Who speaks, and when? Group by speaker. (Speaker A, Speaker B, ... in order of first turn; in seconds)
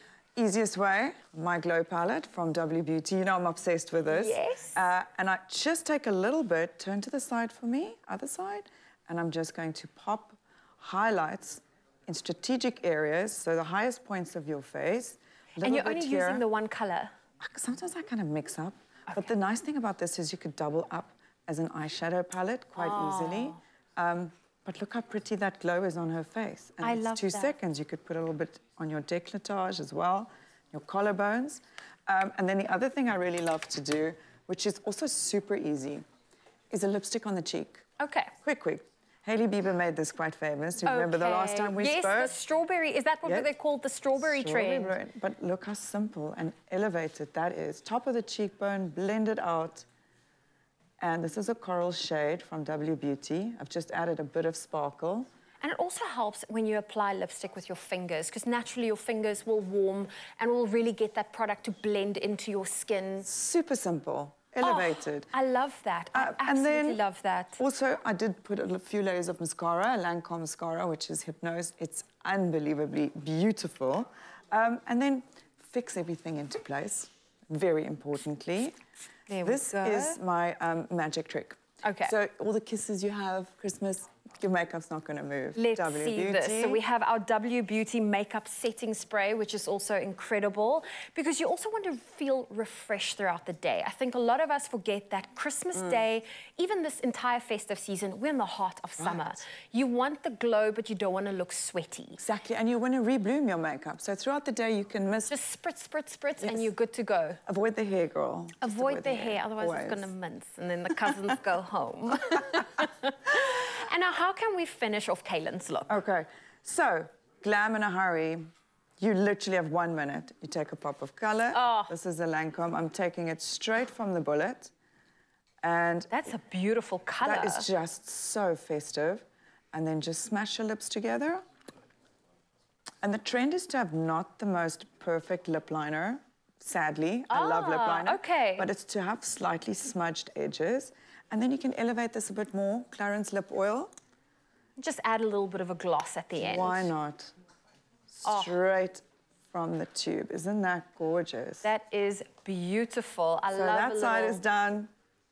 Speaker A: 0.4-16.4, 17.4-36.0, 36.7-37.8, 38.4-42.3, 44.2-49.8, 51.0-55.3, 63.2-65.3, 66.1-67.0, 67.6-78.8, 79.4-86.8, 95.8-96.0, 99.0-99.3, 102.2-105.3, 106.4-106.7, 107.5-110.1, 115.9-118.5, 119.0-124.7, 125.6-126.2, 127.2-131.4, 133.0-143.9, 146.4-147.3, 148.1-151.7, 153.5-154.9
Speaker B: 4.1-4.8, 15.6-17.1, 22.8-23.6, 26.8-27.5, 38.0-38.3, 40.8-45.0, 55.6-63.3, 64.6-67.6, 79.3-80.2, 81.8-82.2, 85.5-102.2, 105.3-107.4, 108.6-116.0, 121.5-121.9, 126.1-127.7, 137.3-138.7, 144.8-146.9, 148.2-148.6, 151.6-154.4